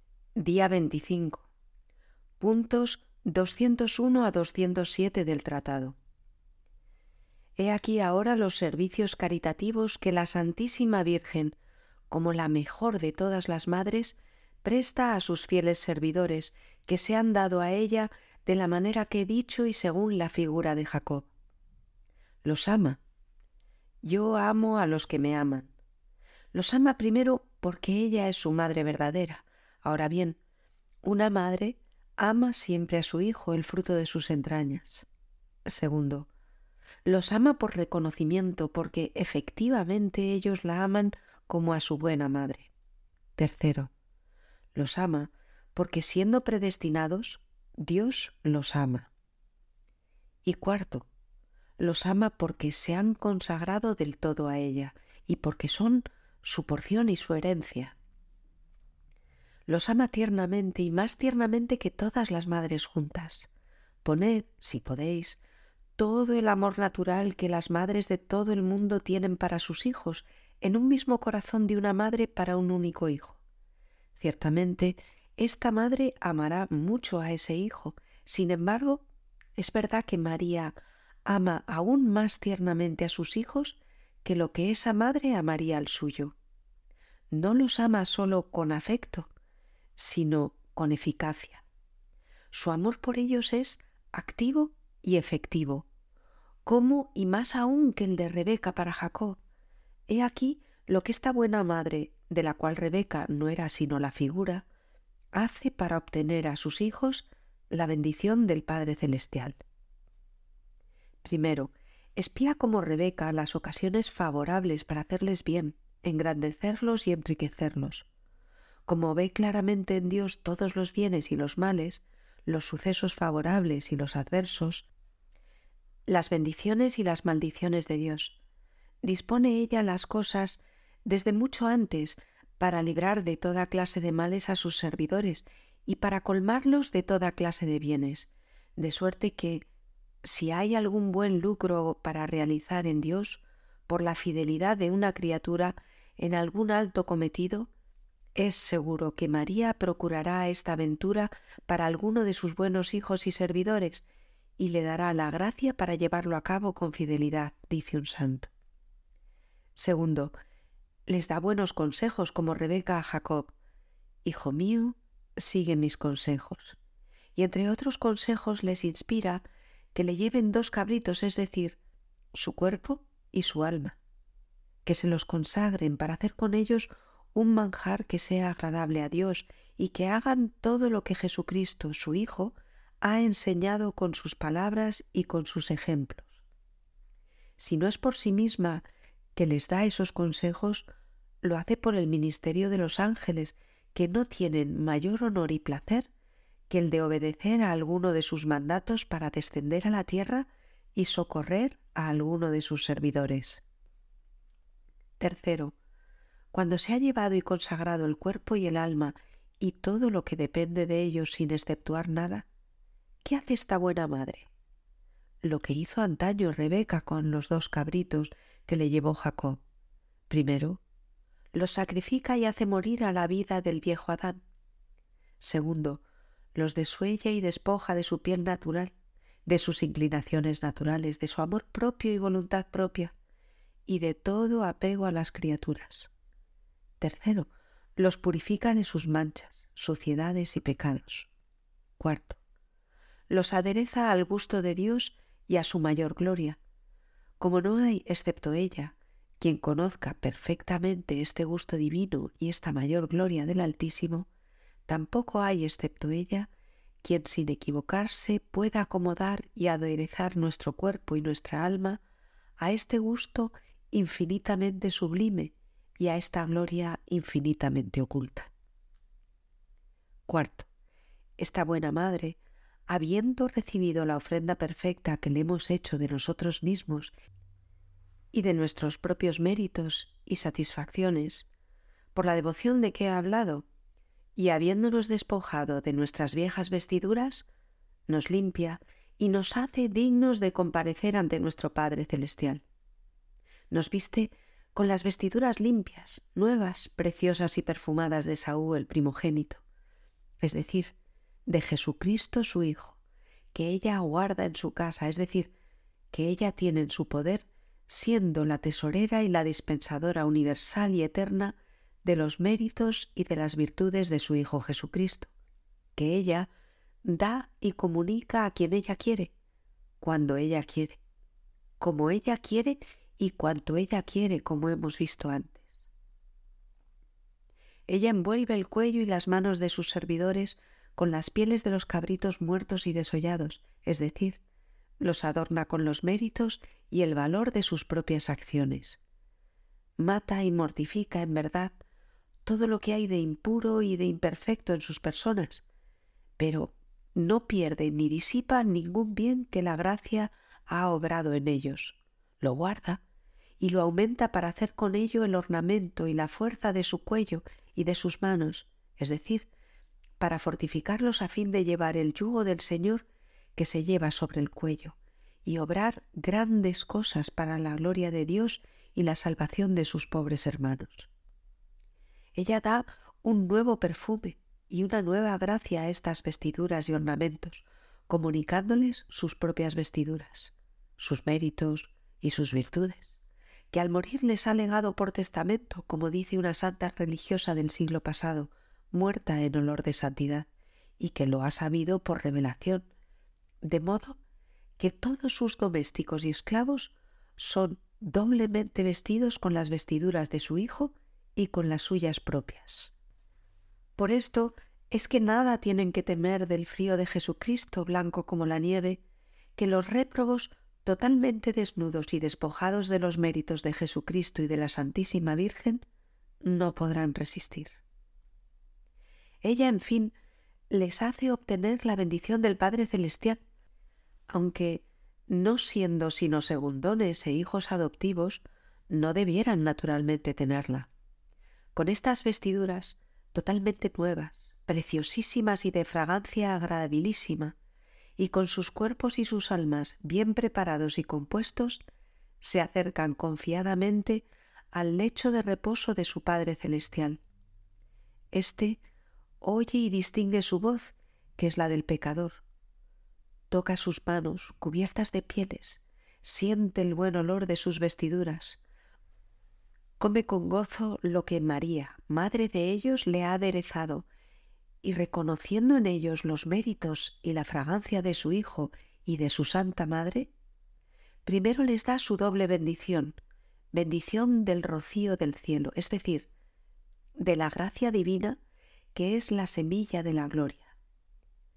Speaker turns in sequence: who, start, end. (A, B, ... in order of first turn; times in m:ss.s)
0:00.4-0:01.5 A
0:02.4-0:06.0 A
0:07.6-0:11.6 A
0:12.1-0:21.3 A
0:22.4-0:23.0 A
0:24.0-0:25.7 A
0:26.5-0:30.4 A
0:31.0-0:35.1 A
0:35.7-0:36.3 A
0:37.0-0:42.7 A
0:43.4-0:43.9 A
0:44.8-0:49.1 A
0:50.4-0:51.1 A
0:51.8-0:58.0 A
0:59.7-1:03.5 A
1:04.0-1:05.4 A
1:06.0-1:13.4 A
1:14.2-1:19.0 A
1:19.6-1:26.4 A
1:27.3-1:29.3 A
1:30.0-1:31.6 A
1:32.5-1:35.9 A
1:36.7-1:39.4 A
1:40.1-1:44.7 A
1:45.4-1:49.6 A
1:51.2-1:58.1 A
1:58.9-2:04.9 A
2:06.1-2:08.4 A
2:09.0-2:19.7 A
2:20.2-2:27.7 A
2:28.4-2:34.0 A
2:34.6-2:38.5 A
2:39.8-2:40.4 A
2:41.1-2:43.6 A
2:44.2-2:46.8 A
2:47.4-2:51.8 A
2:52.3-2:54.0 A
2:54.8-3:06.4 A
3:07.6-3:10.9 A
3:11.4-3:16.1 A
3:16.7-3:23.6 A
3:25.2-3:25.8 A
3:26.5-3:32.5 A
3:33.2-3:34.5 A
3:35.4-3:39.6 A
3:40.3-3:40.8 A
3:41.5-3:44.4 A
3:45.4-3:46.0 A
3:46.6-3:48.9 A
3:49.5-3:53.1 A
3:53.9-3:56.1 A
3:57.0-4:01.3 A
4:02.0-4:02.4 A
4:03.3-4:06.6 A
4:07.4-4:14.3 A
4:14.9-4:16.5 A
4:17.0-4:22.0 A
4:22.6-4:28.5 A
4:30.3-4:30.7 A
4:31.4-4:32.4 A
4:32.9-4:37.1 A
4:38.3-4:41.5 A
4:42.2-4:43.7 A
4:44.4-4:47.5 A
4:48.1-4:52.6 A
4:53.7-4:59.6 A
5:00.4-5:01.0 A
5:01.5-5:03.0 A
5:03.5-5:05.5 A
5:06.1-5:15.3 A
5:16.0-5:16.5 A
5:17.0-5:19.3 A
5:20.0-5:21.0 A
5:21.8-5:25.8 A
5:27.9-5:34.4 A
5:35.0-5:39.0 A
5:40.0-5:41.8 A
5:42.5-5:45.6 A
5:46.4-5:53.0 A
5:53.6-5:59.5 A
6:00.2-6:11.1 A
6:12.4-6:23.2 A
6:23.7-6:30.5 A
6:31.0-6:32.9 A
6:33.6-6:34.2 A
6:34.8-6:42.9 A
6:44.0-6:49.0 A
6:49.6-6:55.8 A
6:56.4-6:57.8 A
6:59.4-7:00.2 A
7:00.7-7:03.4 A
7:04.3-7:10.9 A
7:11.8-7:17.6 A
7:18.2-7:21.8 A
7:22.4-7:27.2 A
7:28.3-7:28.8 A
7:29.4-7:32.4 A
7:33.5-7:38.6 A
7:40.0-7:44.1 A
7:44.8-7:50.3 A
7:51.2-7:53.2 A
7:53.7-7:56.3 A
7:57.2-7:58.4 A
7:59.0-8:00.7 A